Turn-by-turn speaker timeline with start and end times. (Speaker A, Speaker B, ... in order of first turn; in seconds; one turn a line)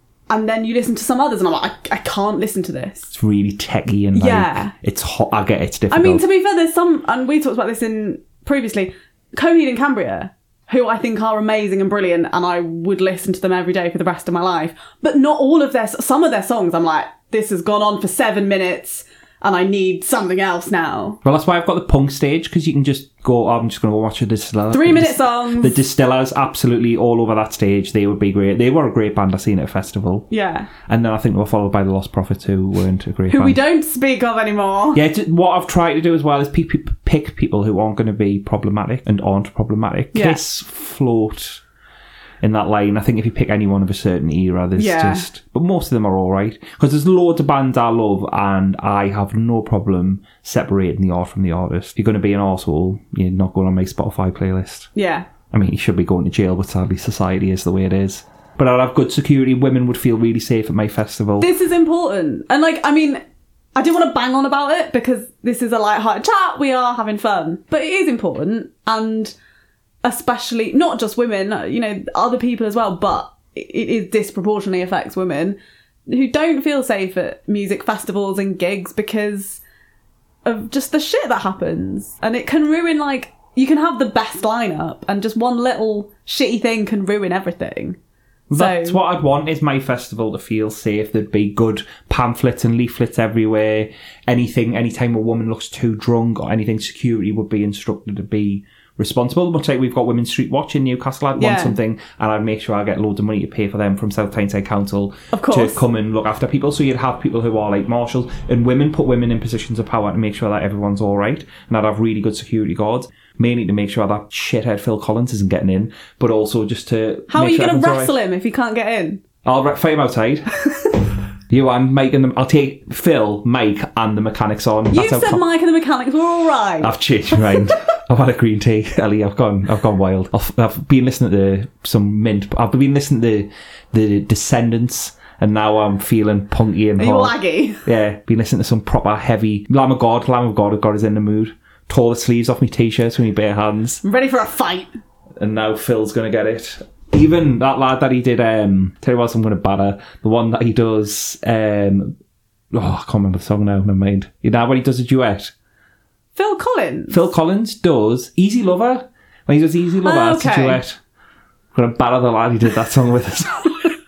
Speaker A: 0.3-3.1
Speaker B: 3.1-6.2
Speaker A: 4.1-4.7
Speaker A: 5.9-21.2
Speaker B: 21.2-30.3
Speaker A: 24.7-25.8
Speaker A: 30.3-30.7
Speaker B: 30.9-33.6
Speaker A: 33.3-35.0
Speaker B: 34.9-41.6
Speaker A: 40.1-40.4
Speaker B: 42.4-54.9
Speaker A: 44.8-45.3
Speaker A: 55.0-55.3
Speaker B: 55.5-61.5
Speaker A: 61.4-63.2
Speaker A: 63.8-69.3
Speaker A: 70.0-75.6
Speaker A: 76.1-79.6
Speaker A: 80.5-88.0
Speaker B: 88.5-118.2
Speaker A: 88.5-89.0
Speaker A: 101.4-101.8
Speaker A: 105.3-105.8
Speaker A: 117.3-119.2
Speaker B: 119.5-120.5
Speaker B: 121.5-125.4
Speaker A: 124.9-127.8
Speaker B: 126.8-144.0
Speaker A: 137.0-137.8
Speaker A: 144.0-144.9
Speaker B: 145.4-152.2
Speaker B: 152.7-155.5
Speaker A: 156.3-157.3
Speaker B: 157.1-161.0
Speaker A: 160.0-160.8
Speaker B: 161.7-163.9